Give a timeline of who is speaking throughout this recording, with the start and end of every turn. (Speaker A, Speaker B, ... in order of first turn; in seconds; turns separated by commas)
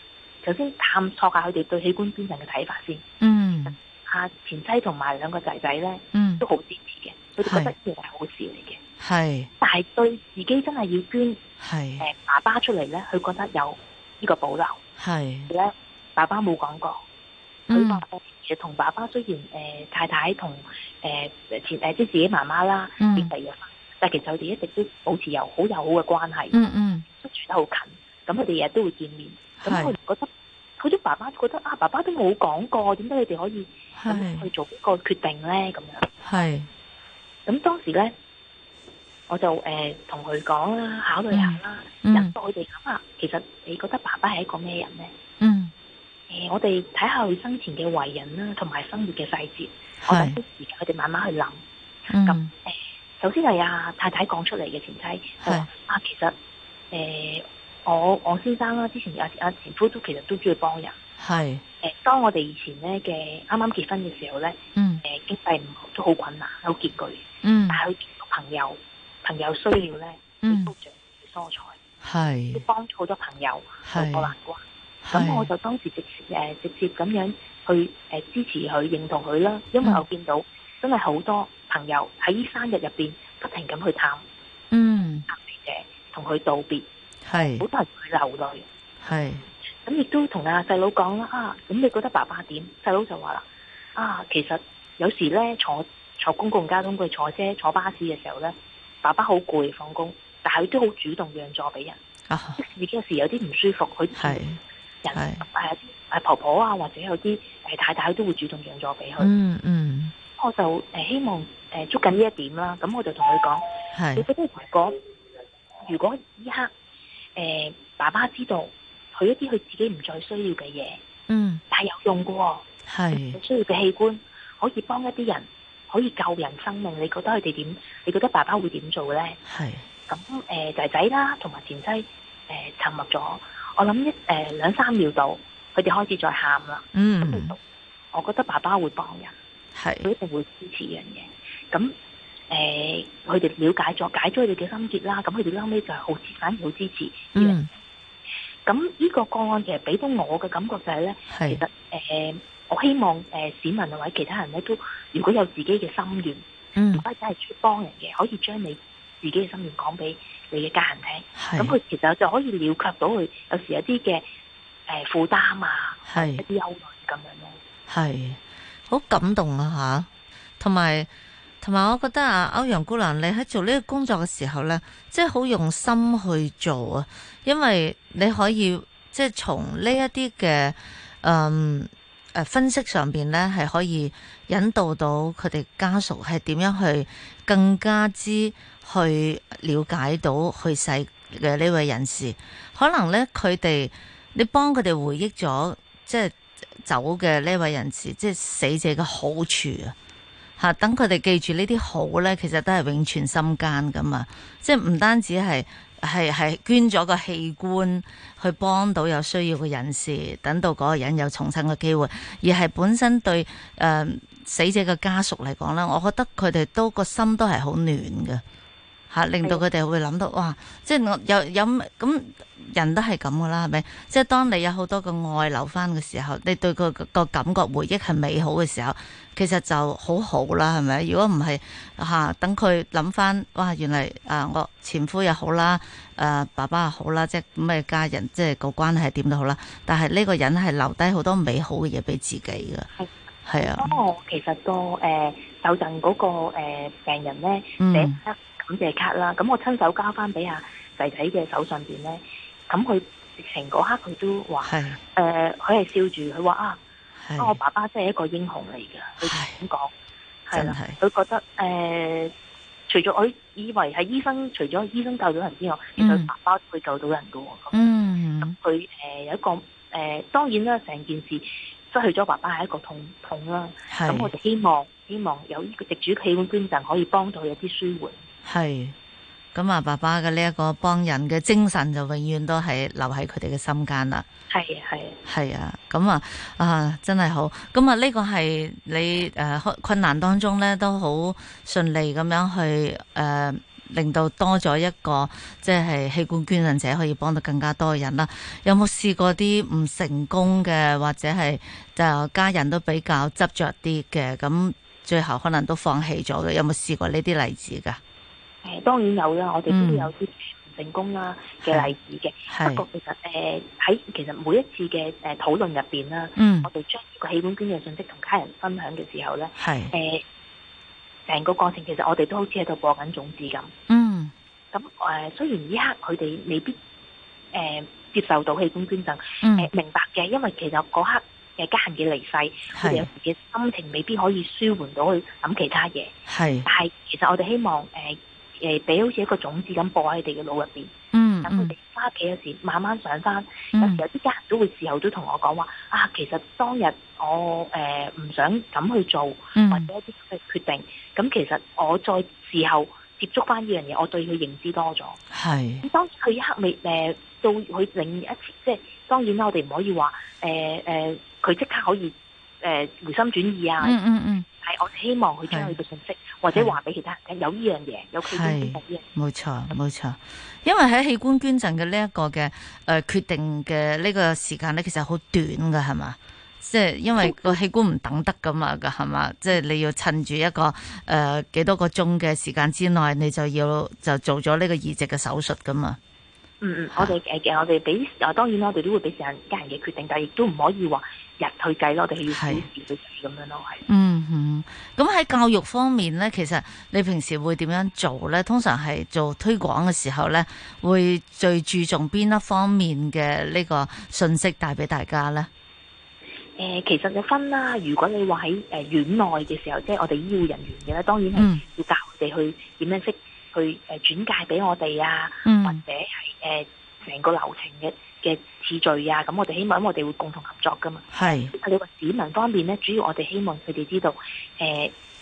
Speaker A: 0.4-3.0, Speaker B: 3.2-3.7, Speaker A: 3.6-8.8, Speaker B: 6.1-6.4, Speaker B: 7.4-7.7, Speaker B: 9.0-9.5, Speaker A: 9.6-11.4, Speaker B: 11.6-12.1, Speaker A: 12.0-14.8, Speaker B: 15.0-15.5, Speaker A: 15.5-17.0, Speaker B: 17.7-18.0, Speaker A: 17.7-30.3, Speaker B: 23.0-23.3, Speaker B: 26.5-27.0, Speaker B: 29.6-29.9, Speaker A: 30.8-36.1, Speaker B: 34.0-34.5, Speaker B: 36.2-36.7, Speaker A: 37.5-38.1, Speaker A: 39.3-45.1, Speaker B: 41.3-42.3, Speaker B: 45.4-45.7, Speaker A: 46.3-51.6, Speaker B: 50.0-50.4, Speaker B: 52.1-52.5, Speaker A: 52.2-56.3, Speaker B: 55.4-55.7, Speaker A: 56.9-61.0, Speaker B: 61.2-61.6, Speaker A: 61.8-71.8, Speaker B: 64.7-65.0, Speaker B: 67.4-67.8, Speaker B: 70.4-70.7, Speaker B: 72.0-72.6, Speaker A: 72.5-84.2, Speaker B: 73.8-74.3, Speaker B: 75.0-75.5, Speaker B: 84.7-85.2, Speaker A: 85.3-86.9, Speaker B: 87.2-87.7, Speaker A: 87.6-88.7, Speaker B: 89.0-89.4, Speaker A: 89.8-102.0, Speaker B: 102.3-102.6, Speaker A: 102.6-104.4, Speaker B: 104.1-104.6, Speaker A: 105.0-109.3, Speaker B: 105.1-105.4, Speaker B: 109.2-110.1, Speaker A: 110.4-113.6, Speaker B: 113.9-114.2, Speaker A: 114.2-115.0, Speaker A: 115.9-116.7, Speaker A: 117.3-121.0, Speaker B: 121.3-121.6, Speaker A: 121.7-129.4, Speaker B: 122.9-123.4, Speaker B: 129.4-129.8, Speaker A: 130.1-137.6, Speaker B: 136.9-137.5, Speaker A: 138.1-139.3, Speaker B: 139.7-140.1, Speaker A: 140.0-141.9, Speaker A: 142.5-147.6, Speaker B: 147.3-147.7, Speaker A: 148.6-156.4, Speaker B: 151.3-151.6, Speaker B: 156.8-157.0, Speaker A: 156.9-164.2, Speaker B: 161.3-161.8, Speaker A: 164.9-167.6, Speaker B: 166.1-166.4, Speaker B: 167.9-170.1, Speaker B: 170.6-171.1, Speaker B: 171.6-199.9, Speaker B: 200.6-218.4, Speaker B: 219.1-242.9, Speaker A: 243.0-256.8, Speaker B: 243.4-244.0, Speaker B: 247.8-248.2, Speaker B: 254.6-255.0, Speaker B: 257.2-257.6, Speaker A: 257.4-259.9, Speaker B: 259.2-259.6, Speaker A: 260.5-262.3, Speaker B: 260.5-261.0, Speaker A: 262.9-278.2, Speaker B: 266.0-266.3, Speaker B: 267.7-268.6, Speaker B: 273.9-274.3, Speaker B: 278.4-278.9, Speaker B: 279.5-284.2, Speaker A: 284.5-285.2, Speaker B: 285.2-308.0, Speaker A: 308.6-320.2, Speaker B: 309.7-310.1, Speaker B: 311.6-311.9, Speaker B: 312.5-312.8, Speaker B: 316.4-316.7, Speaker B: 319.6-319.9, Speaker A: 321.3-323.7, Speaker B: 323.9-324.3, Speaker A: 324.7-326.8, Speaker A: 327.5-336.1, Speaker B: 329.4-329.7, Speaker B: 332.7-333.1, Speaker B: 336.3-336.7, Speaker A: 336.6-340.9, Speaker B: 341.1-341.7, Speaker A: 341.4-355.2, Speaker B: 343.7-344.0, Speaker B: 349.5-349.9, Speaker B: 355.3-355.9, Speaker A: 355.8-364.0, Speaker B: 363.8-364.4, Speaker A: 364.6-369.0, Speaker B: 365.5-365.7, Speaker B: 366.5-366.8, Speaker B: 368.2-386.0, Speaker A: 377.1-377.6, Speaker A: 386.6-393.8, Speaker B: 392.3-392.7, Speaker B: 393.9-405.5, Speaker A: 406.6-424.9, Speaker B: 411.3-411.6, Speaker B: 415.4-415.8, Speaker B: 421.1-421.5